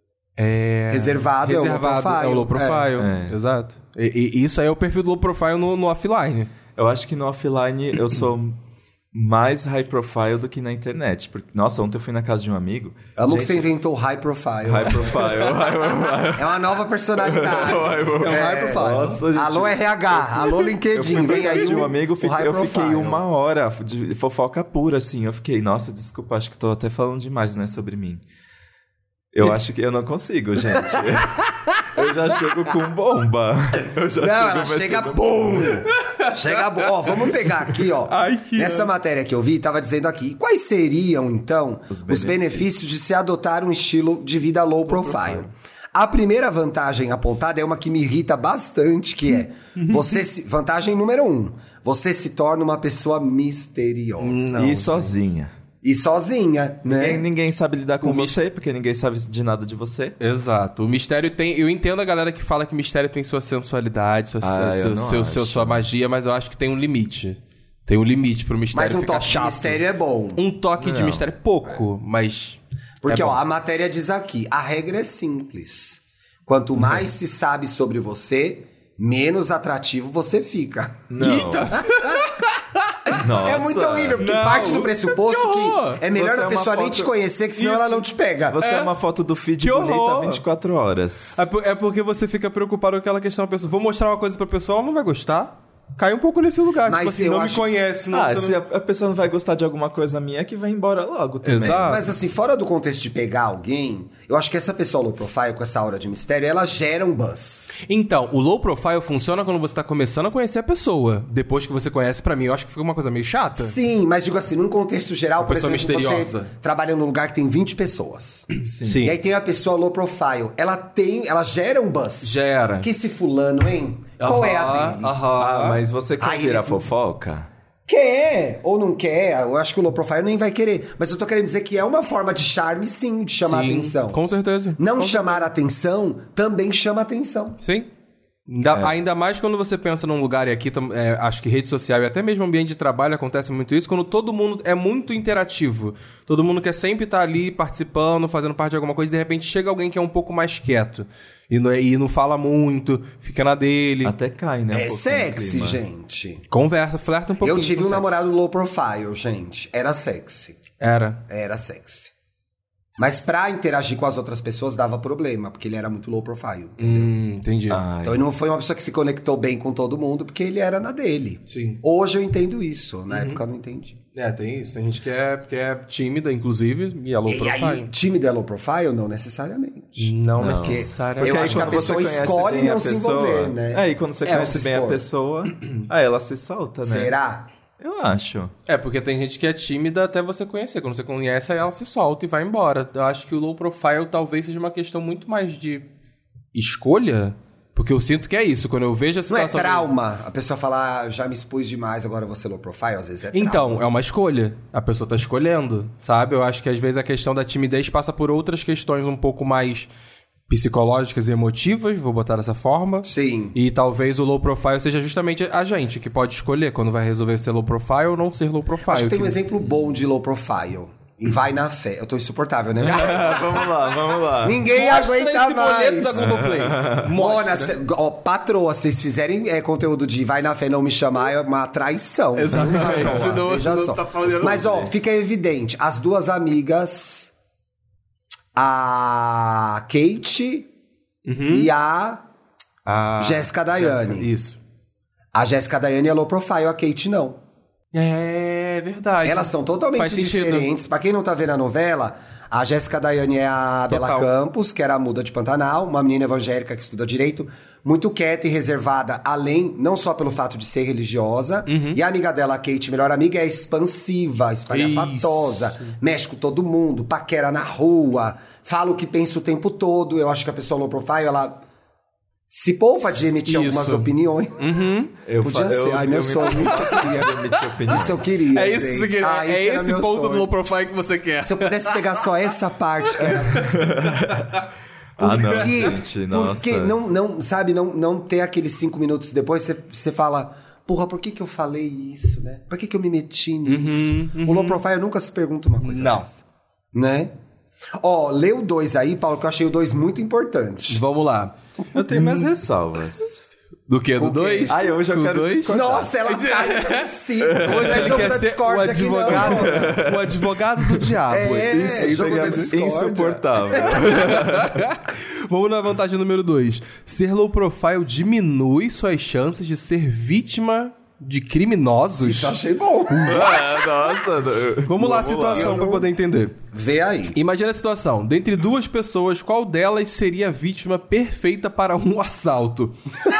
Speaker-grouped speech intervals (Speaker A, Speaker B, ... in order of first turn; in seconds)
Speaker A: 0.4-6.5, 18.2-19.2, 21.2-21.6, 35.9-37.1, 38.1-38.9, 44.9-45.5, 49.8-50.1, 54.2-55.1, 58.0-58.4, 60.2-69.8, 70.3-73.4, 81.2-83.2, 84.2-86.0, 87.5-88.0, 88.6-88.9, 89.6-90.4, 91.3-98.6, 101.4-102.0, 107.8-113.8, 115.4-116.5, 118.8-119.2, 122.2-122.9, 124.2-125.8, 133.4-135.4, 137.6-137.9, 138.5-154.1, 156.5-158.2, 160.8-161.2, 166.8-167.8, 171.5-171.8, 173.1-173.4, 174.1-177.9, 180.0-182.0, 188.7-195.9, 196.5-199.9, 203.3-209.9, 210.5-219.4, 222.9-223.7, 224.6-227.8, 232.3-234.9, 241.2-241.7, 242.8-244.6, 247.9-250.7, 253.9-254.3, 261.7-262.0, 264.7-265.9, 273.4-275.1, 276.6-277.6, 278.5-282.2, 283.1-284.6, 293.6-294.8, 295.8-296.2, 300.9-302.5, 303.9-312.7, 313.9-322.6, 323.1-323.6, 324.9-326.6, 327.3-332.9
Speaker B: 0.9-2.9, 13.2-15.8, 16.3-23.2, 30.8-31.5, 34.1-55.0, 55.8-57.2, 68.7-70.4, 73.0-81.1, 83.4-88.6, 96.8-97.7, 101.6-107.7, 113.6-118.5, 119.0-125.2, 126.2-126.8, 127.9-134.2, 134.8-137.6, 154.7-156.4, 157.4-160.6, 161.3-162.1, 163.0-167.1, 168.0-174.0, 177.2-185.0, 186.8-187.5, 199.3-203.8, 213.0-213.6, 218.9-223.4, 224.4-226.3, 227.1-237.3, 238.5-240.7, 241.5-242.2, 243.2-244.3, 245.3-247.4, 249.2-271.6, 272.5-274.6, 275.4-277.3, 277.9-280.5, 281.4-283.8, 285.2-296.4, 296.9-297.3, 298.0-301.0, 304.2-304.8, 305.7-310.0, 311.3-314.1, 322.2-323.9, 325.5-326.1, 326.7-327.4
Speaker C: 3.0-3.4, 6.8-8.6, 9.1-13.7, 14.6-28.2, 29.3-35.8, 41.9-42.6, 54.5-55.5, 56.9-60.2, 64.4-65.8, 70.8-71.3, 81.1-81.8, 83.2-84.9, 86.1-87.1, 88.5-91.4, 98.1-102.1, 118.6-119.1, 125.3-127.5, 154.0-155.8, 167.7-168.2, 180.4-187.1, 187.8-188.5, 222.8-224.6, 226.1-227.1, 232.6-233.3, 275.2-278.4, 283.6-284.6, 285.2-286.9, 301.9-303.4, 304.7-306.1, 307.4-308.3, 309.3-311.1, 311.7-314.9, 323.2-325.9